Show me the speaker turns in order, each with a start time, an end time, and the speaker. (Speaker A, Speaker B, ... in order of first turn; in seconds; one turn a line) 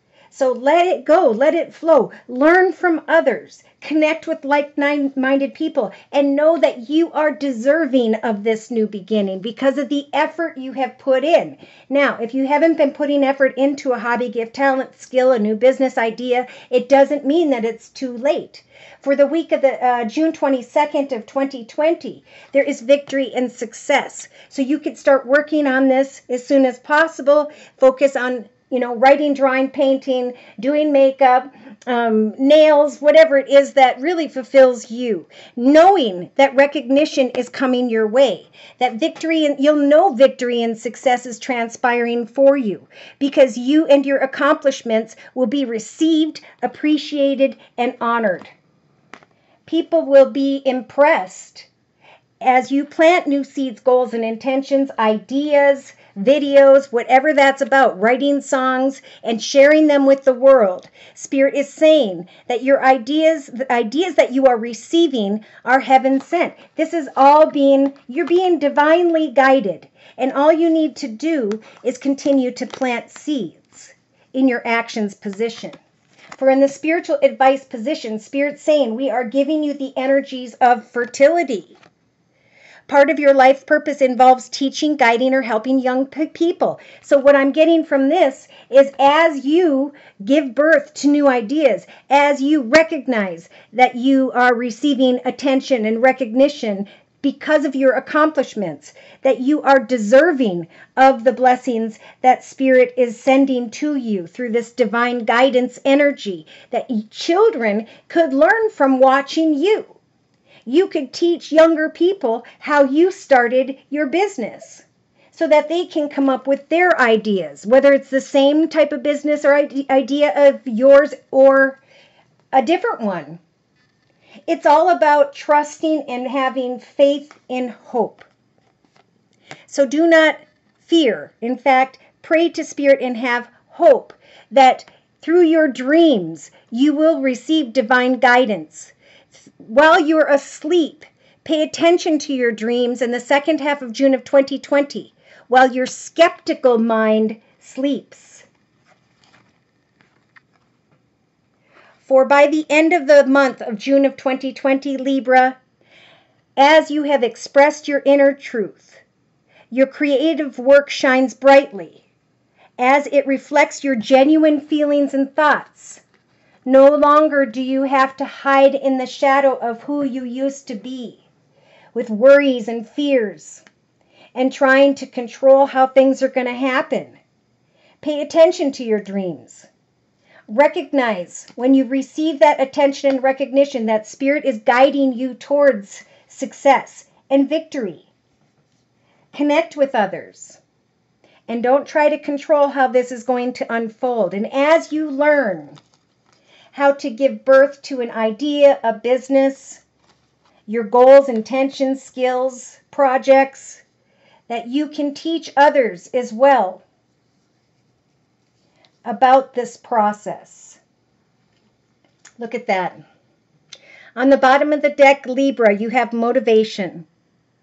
Speaker A: 0.3-48.5
Speaker A: 49.6-51.7
Speaker A: 52.4-75.8
Speaker A: 76.3-81.8
Speaker A: 82.9-110.0
Speaker A: 110.7-121.8
Speaker A: 122.5-123.4
Speaker A: 124.5-128.3
Speaker A: 129.7-138.9
Speaker A: 139.6-148.4
Speaker A: 152.0-155.6
Speaker A: 156.6-159.0
Speaker A: 159.7-162.0
Speaker A: 162.8-166.0
Speaker A: 166.7-171.2
Speaker A: 171.9-173.6
Speaker A: 174.3-177.2
Speaker A: 178.0-179.7
Speaker A: 180.5-188.1
Speaker A: 189.3-190.6
Speaker A: 191.5-195.8
Speaker A: 196.7-199.8
Speaker A: 200.7-203.8
Speaker A: 204.5-206.8
Speaker A: 209.0-210.8
Speaker A: 212.4-213.0
Speaker A: 214.2-217.1